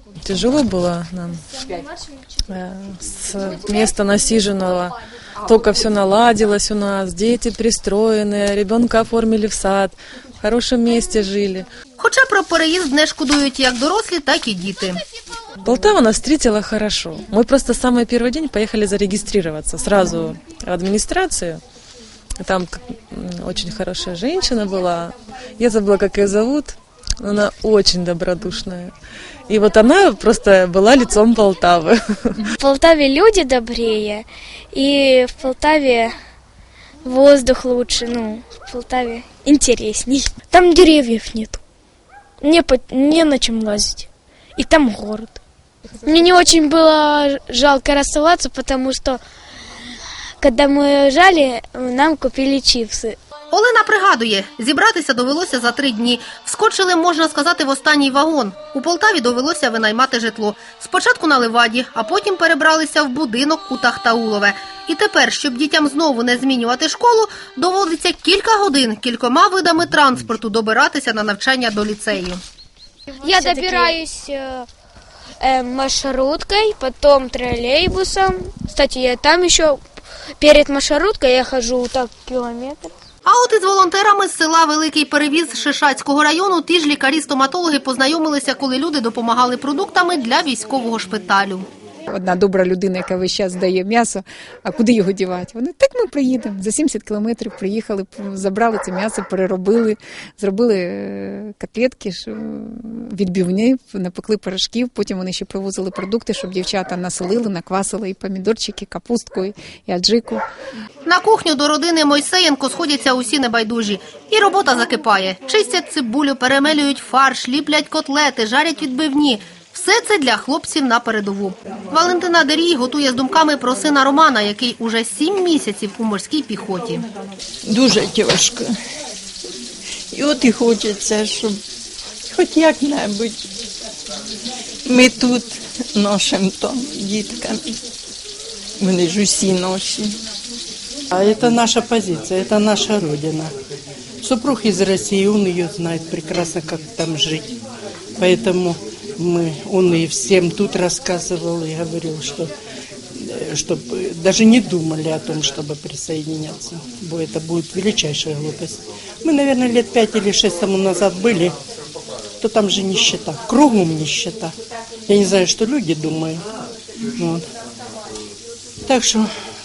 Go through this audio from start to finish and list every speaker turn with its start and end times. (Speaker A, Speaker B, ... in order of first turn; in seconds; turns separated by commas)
Speaker A: 0.2-1.4, Speaker A: 2.5-4.9, Speaker A: 5.5-11.7, Speaker B: 12.0-15.0, Speaker A: 15.6-21.6, Speaker A: 22.4-28.9, Speaker A: 29.5-32.4, Speaker C: 32.6-36.1, Speaker C: 37.0-41.6, Speaker C: 42.4-45.4, Speaker C: 46.0-49.2, Speaker C: 50.4-53.1, Speaker B: 53.5-72.4, Speaker C: 73.1-74.7, Speaker C: 75.4-79.8, Speaker C: 80.4-82.9, Speaker B: 83.2-91.7, Speaker D: 92.1-110.4, Speaker B: 111.0-127.0, Speaker E: 127.6-128.7, Speaker E: 130.1-131.6, Speaker E: 132.3-133.4, Speaker E: 134.8-137.8, Speaker E: 138.8-140.2, Speaker F: 141.1-143.5, Speaker F: 144.2-147.5, Speaker F: 148.2-152.5, Speaker F: 153.1-161.5, Speaker F: 162.4-164.5, Speaker F: 165.1-166.4, Speaker F: 167.2-167.4, Speaker F: 168.8-169.3